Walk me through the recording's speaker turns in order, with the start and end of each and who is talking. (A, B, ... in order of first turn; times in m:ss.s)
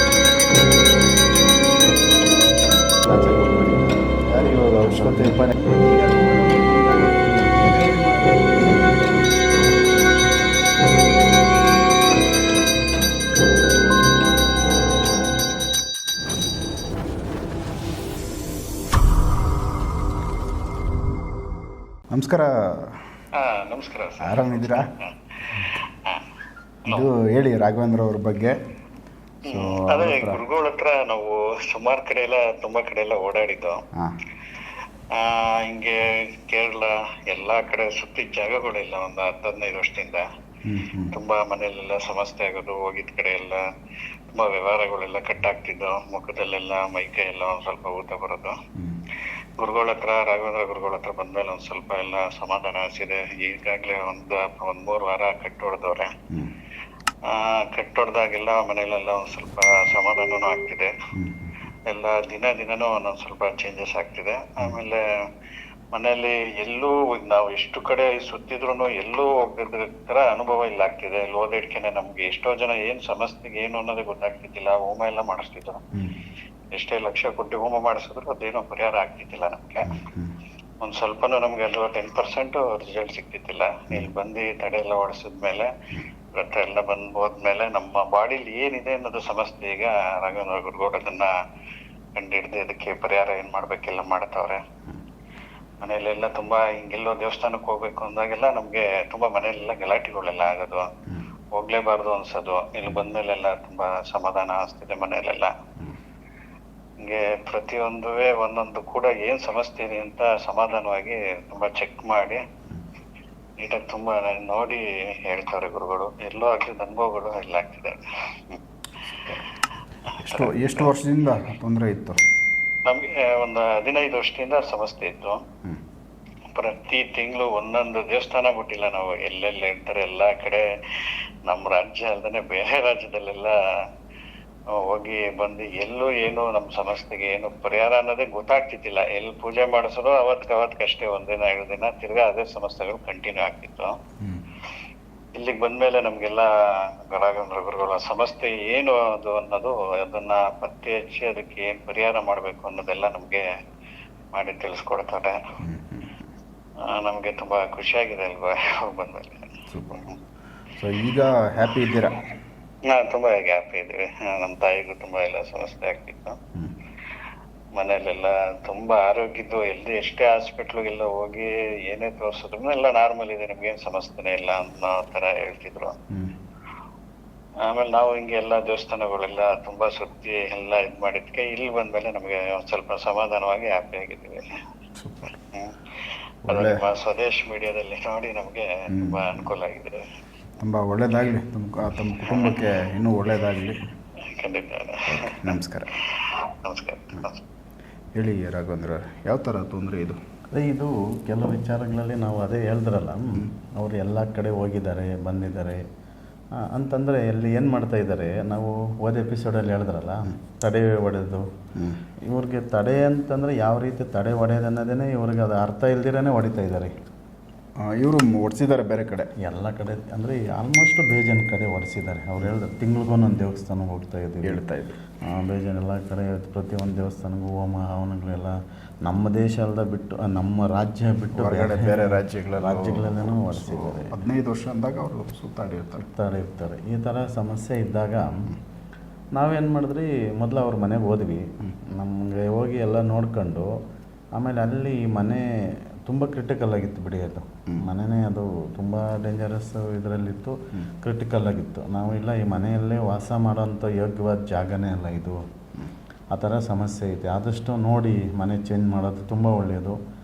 0:03.0-0:04.1 A
0:04.2-0:08.6 B
0:04.9-0:05.7 A
0:22.1-0:23.0 B
0:23.3-0:26.3 C
0:24.2-0:24.9 B
0:26.9-0:28.6 B
0:29.4-0:30.4 B
0:29.4-0:33.8 C
0:33.9-0:34.2 B
0:34.6-0:40.3 C
0:40.6-0:41.1 B
0:41.0-0:43.6 C
0:44.3-0:48.6 C
0:49.1-0:56.1 C
0:57.2-1:00.9 C
1:01.1-1:01.6 B
1:01.9-1:05.3 C
1:05.9-1:15.8 C
1:15.9-1:16.2 B
1:16.7-1:20.0 C
1:19.8-1:20.3 B
1:20.8-1:31.3 C
1:32.1-1:34.6 C
1:35.8-1:40.9 C
1:41.5-1:45.5 C
1:47.0-1:52.4 C
1:53.6-1:58.6 C
1:59.1-1:59.4 B
1:59.2-2:00.9 C
2:00.1-2:02.2 B
2:02.8-2:05.4 C
2:06.5-2:13.9 C
2:14.7-2:24.0 C
2:25.3-2:33.4 C
2:34.3-2:35.6 C
2:35.6-2:36.3 B
2:36.8-2:40.2 C
2:39.7-2:40.1 B
2:40.7-2:42.3 B
2:42.8-2:46.4 C
2:47.7-2:56.0 C
2:57.6-3:04.6 C
3:05.0-3:05.4 B
3:05.5-3:05.9 C
3:06.5-3:06.8 B
3:06.5-3:10.1 C
3:08.9-3:09.4 B
3:10.6-3:13.9 B
3:12.2-3:12.7 C
3:14.2-3:17.4 C
3:15.1-3:16.0 B
3:18.1-3:20.2 B
3:20.5-3:25.8 A
3:26.6-3:31.4 A
3:32.2-3:36.9 A
3:37.8-3:39.3 B
3:39.4-3:44.6 A
3:44.4-3:45.0 B
3:45.2-3:54.2 A
3:51.3-3:56.1 B
3:56.0-3:58.5 A
3:59.3-4:03.7 A
4:04.4-4:05.4 A
4:06.0-4:15.4 A
4:16.3-4:20.0 A